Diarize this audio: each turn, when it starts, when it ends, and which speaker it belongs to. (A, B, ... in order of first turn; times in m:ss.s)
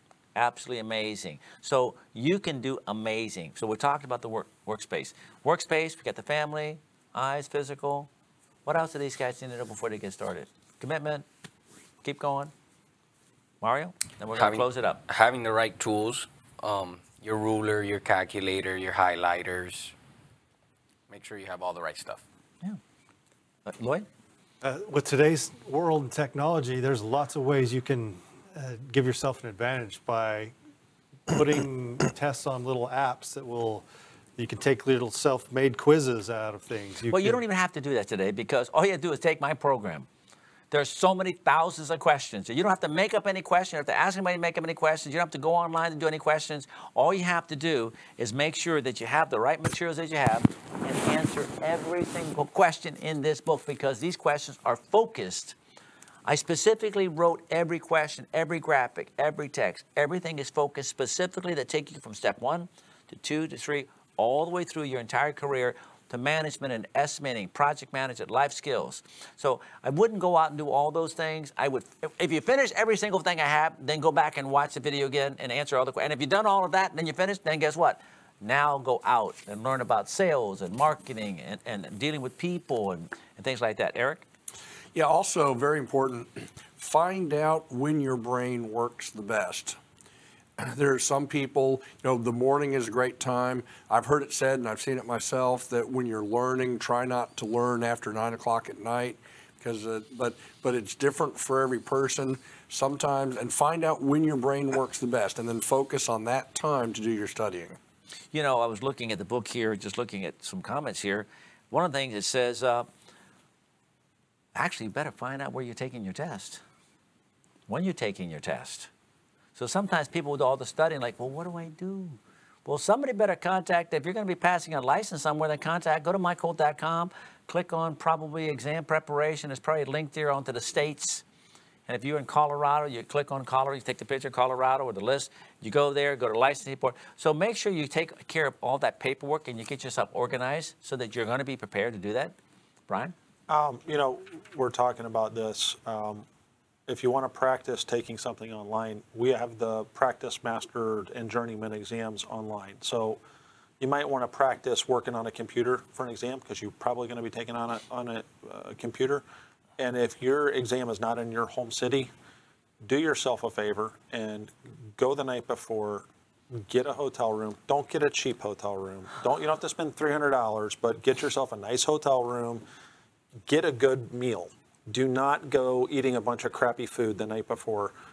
0:00.4-0:08.1 A
0:08.7-0:11.3 A
0:12.0-0:12.5 A
0:13.6-0:15.0 A
0:14.4-0:19.9 B
0:21.1-0:22.2 B
0:23.7-0:24.1 A
0:24.6-0:30.5 C
0:31.3-0:33.9 C
0:34.4-0:37.4 C
0:37.1-0:40.1 A
0:40.7-0:55.6 A
0:56.3-1:24.2 A
1:24.9-1:29.8 D
1:30.6-1:47.8 D
1:48.3-1:52.9 A
1:54.6-1:56.6 A
1:57.7-1:58.9 A
1:59.6-2:11.2 A
2:11.9-2:22.3 A
2:22.9-2:23.1 A
2:23.5-2:26.3 E
2:26.9-2:33.2 E
2:33.8-2:39.2 E
2:39.8-2:42.1 E
2:42.8-2:52.6 E
2:53.5-2:57.9 E